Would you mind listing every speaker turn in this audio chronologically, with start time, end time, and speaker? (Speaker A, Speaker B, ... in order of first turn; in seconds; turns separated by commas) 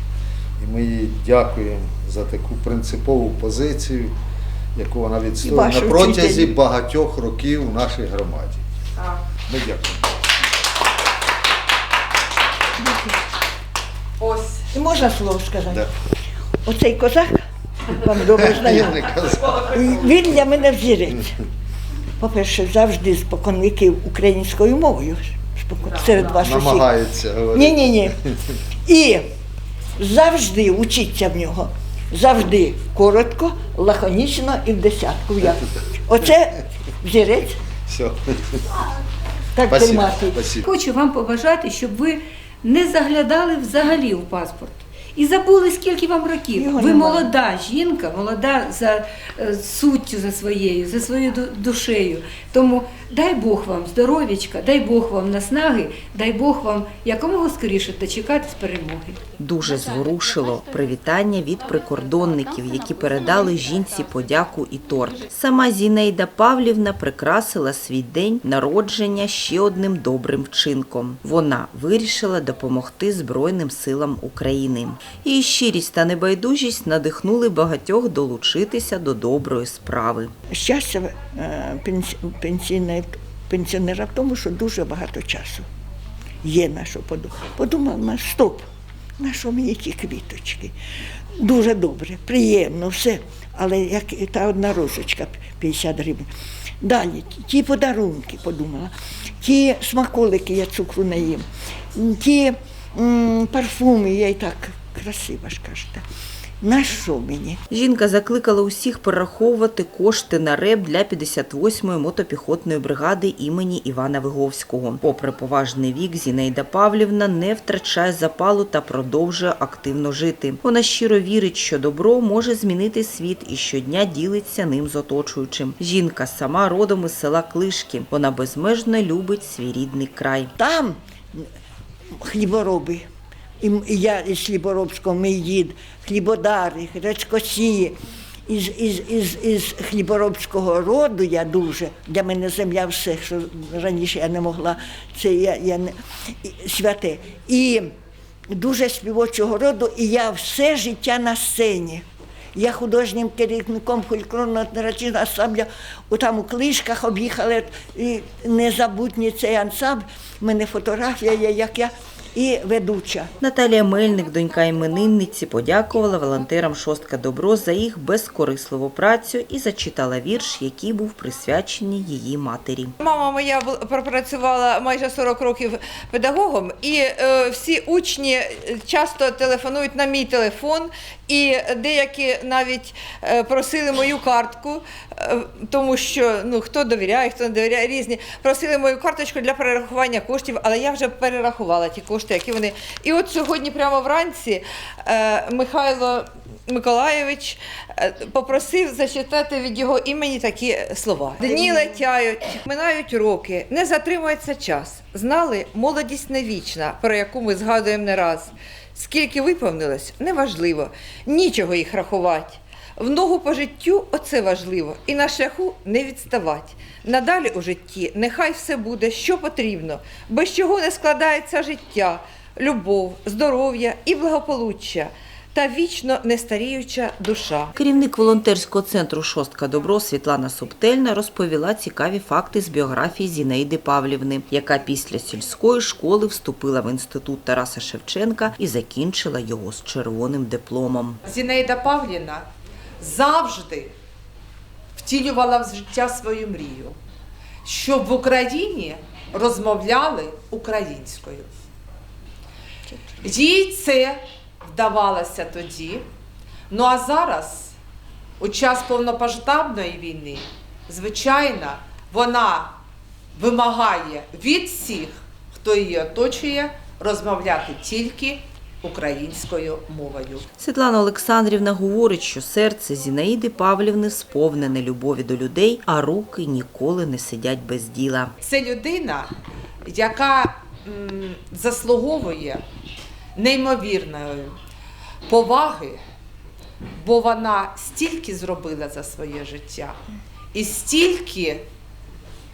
Speaker A: 0.6-4.1, Speaker A: 4.8-8.6, Speaker B: 5.4-6.6, Speaker C: 9.0-9.2, Speaker A: 9.5-10.1, Speaker C: 14.2-14.7, Speaker B: 14.7-15.9, Speaker B: 16.6-21.3, Speaker A: 18.4-19.6, Speaker B: 22.2-26.9, Speaker A: 26.3-27.8, Speaker B: 27.5-28.1, Speaker B: 28.8-29.2, Speaker B: 30.0-37.6, Speaker A: 37.9-38.6, Speaker B: 39.5-40.4, Speaker A: 39.7-40.7, Speaker D: 40.6-59.2, Speaker B: 46.5-47.3, Speaker E: 59.4-80.3, Speaker B: 80.5-85.6, Speaker B: 86.4-88.6, Speaker B: 89.2-90.7, Speaker B: 91.4-96.3, Speaker B: 96.8-106.0, Speaker B: 106.6-107.6, Speaker E: 107.7-130.5, Speaker B: 130.6-131.4, Speaker B: 132.2-133.1, Speaker B: 133.6-137.9, Speaker B: 138.5-147.9, Speaker B: 148.5-163.3, Speaker E: 163.4-172.9, Speaker F: 173.0-227.7, Speaker E: 227.8-241.2, Speaker C: 241.2-242.4, Speaker C: 243.0-243.9, Speaker C: 244.9-246.9, Speaker C: 247.6-251.5, Speaker B: 252.9-253.2, Speaker C: 253.2-256.1, Speaker C: 256.7-257.7, Speaker C: 258.4-262.8, Speaker C: 263.3-270.4, Speaker E: 270.6-278.3, Speaker C: 278.4-279.3, Speaker C: 279.8-282.6, Speaker C: 283.4-284.6, Speaker C: 285.3-286.0, Speaker C: 287.0-290.0, Speaker C: 290.5-291.6